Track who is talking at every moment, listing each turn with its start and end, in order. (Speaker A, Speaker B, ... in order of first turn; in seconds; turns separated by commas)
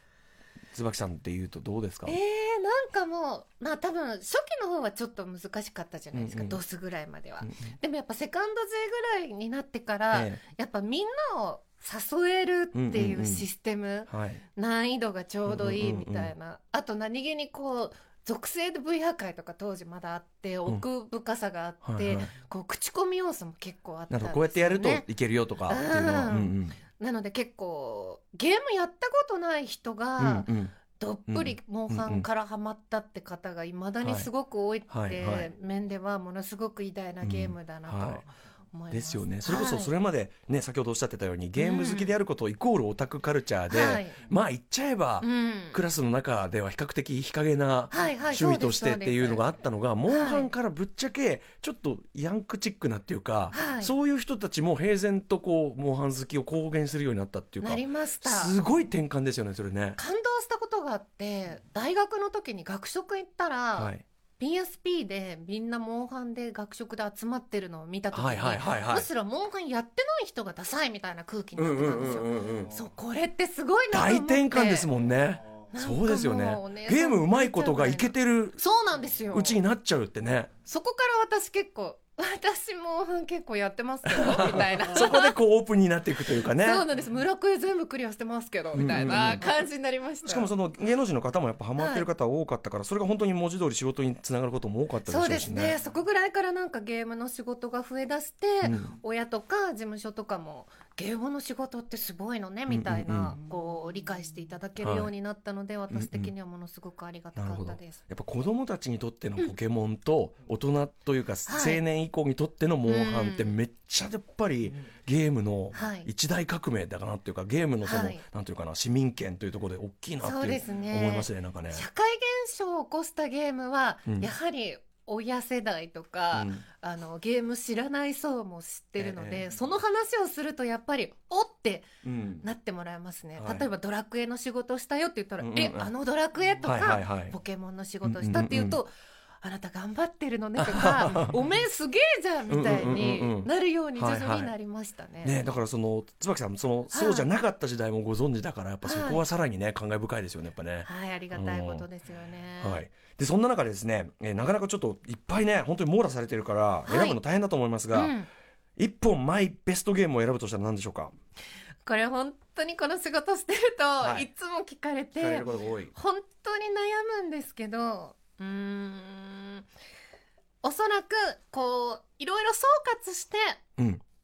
Speaker A: 0.7-2.2, Speaker B: 2.0-25.1, Speaker A: 6.1-6.6, Speaker A: 7.4-7.7, Speaker A: 10.1-10.4, Speaker A: 12.7-13.5, Speaker A: 14.1-14.4, Speaker A: 15.4-16.3, Speaker A: 21.8-22.3, Speaker A: 24.1-26.8, Speaker B: 25.7-39.9, Speaker A: 30.2-30.8, Speaker A: 31.3-32.3, Speaker A: 34.0-34.3, Speaker A: 34.9-35.5, Speaker A: 37.2-38.2, Speaker A: 38.9-60.0, Speaker B: 41.5-42.1, Speaker B: 43.7-44.2, Speaker B: 45.2-45.8, Speaker B: 47.9-49.4, Speaker B: 50.1-50.5, Speaker B: 53.5-53.9, Speaker B: 57.6-58.5, Speaker B: 60.0-74.9, Speaker A: 63.8-64.0, Speaker A: 68.1-69.1, Speaker A: 71.5-72.7, Speaker A: 73.9-78.6, Speaker B: 75.7-79.6, Speaker A: 79.3-80.5, Speaker B: 80.6-85.3, Speaker A: 84.1-86.8, Speaker B: 86.3-90.5, Speaker A: 88.7-89.5, Speaker A: 90.2-95.7, Speaker B: 91.8-92.0, Speaker B: 95.0-108.0, Speaker A: 98.6-98.9, Speaker A: 102.7-103.3, Speaker A: 104.8-105.1, Speaker A: 105.9-106.3, Speaker A: 107.3-121.8, Speaker B: 111.5-111.8, Speaker B: 112.8-113.5, Speaker B: 115.7-116.1, Speaker B: 117.8-118.2, Speaker B: 120.2-131.9, Speaker A: 126.3-126.6, Speaker A: 129.0-129.4, Speaker A: 132.0-132.4, Speaker B: 132.4-145.4, Speaker A: 133.4-133.7, Speaker A: 135.4-135.9, Speaker A: 136.6-137.3, Speaker A: 138.0-138.8, Speaker A: 140.6-141.4, Speaker A: 142.5-144.5, Speaker A: 145.2-151.9, Speaker B: 146.9-147.3, Speaker B: 148.8-149.2, Speaker B: 150.8-152.8, Speaker A: 152.6-158.1, Speaker B: 156.8-157.2, Speaker B: 157.9-158.3, Speaker A: 158.8-161.1, Speaker B: 161.8-169.7, Speaker A: 164.0-164.3, Speaker A: 165.2-165.9, Speaker B: 170.6-173.6, Speaker A: 173.8-174.0